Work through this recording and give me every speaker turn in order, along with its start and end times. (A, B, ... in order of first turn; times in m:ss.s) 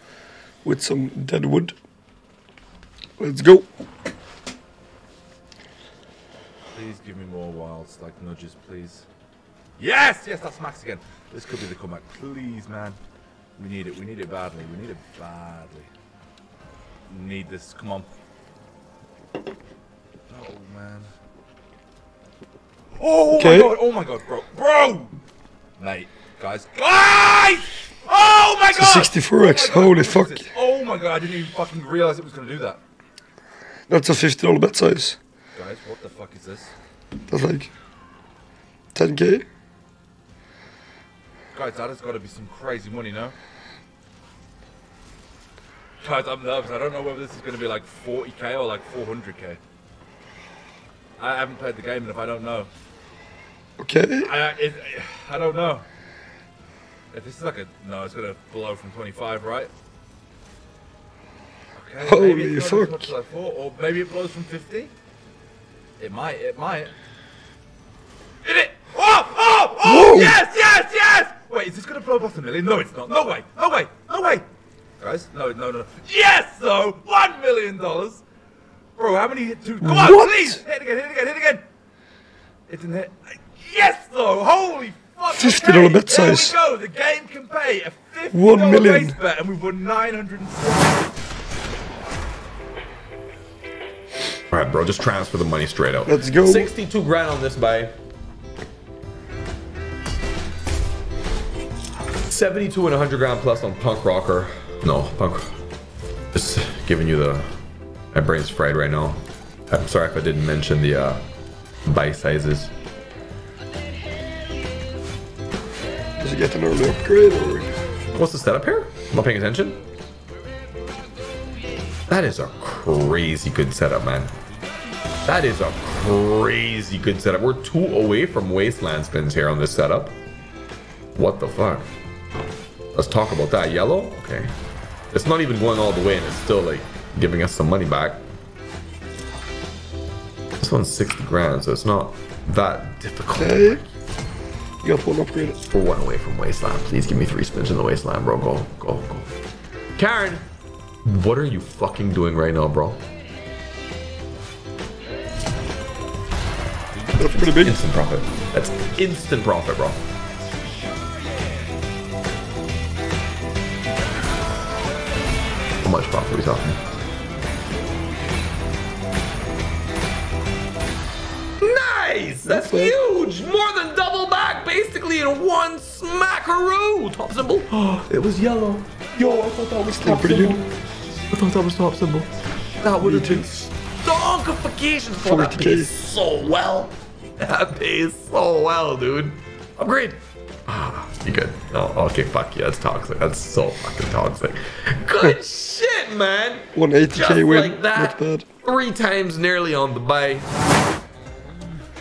0:00.6-0:01.8 A
0:03.2-0:03.7 A
0:06.7-0:09.1 B
0:09.8-0:13.0 B
0:13.6-0:15.9 B
0:17.1-0:18.2 B
0:20.3-0:21.1 B
0:23.0-0:25.2 B
0:23.3-0:23.8 A
0:25.8-0:32.8 B
0:28.7-0:30.5 A
0:33.9-0:35.2 A
0:35.5-0:36.7 B
0:37.3-0:37.7 A
0:38.9-0:39.4 A
0:41.5-0:43.4 B
0:46.0-0:49.6 B
0:51.2-0:52.7 B
0:53.8-0:54.4 A
0:54.2-0:55.8 B
0:57.1-0:59.7 B
1:01.7-1:04.9 B
1:02.0-1:03.1 A
1:06.0-1:06.9 B
1:08.4-1:14.5 B
1:09.8-1:10.4 A
1:15.0-1:18.2 B
1:19.0-1:21.6 B
1:19.8-1:20.6 A
1:22.7-1:31.1 B
1:25.3-1:26.6 A
1:28.3-1:29.2 A
1:34.5-1:37.9 C
1:36.0-1:36.7 A
1:42.3-1:45.4 C
1:46.3-1:47.4 C
1:48.1-1:51.2 C
1:51.9-1:52.7 C
1:56.2-1:57.7 A
1:58.1-1:59.8 C
2:02.1-2:04.3 C
2:05.2-2:10.2 C
2:11.2-2:11.9 C
2:12.9-2:14.5 C
2:15.1-2:18.2 C
2:20.6-2:23.9 C
2:23.4-2:23.8 A
2:24.8-2:25.6 A
2:25.7-2:29.3 C
2:30.0-2:30.4 C
2:31.1-2:33.0 C
2:37.2-2:37.8 A
2:37.4-2:40.0 C
2:45.8-2:46.8 C
2:51.6-3:00.6 C
2:52.4-2:53.0 A
2:59.9-3:00.6 A
3:01.3-3:20.5 C
3:03.0-3:03.5 A
3:05.2-3:05.9 A
3:16.7-3:18.5 A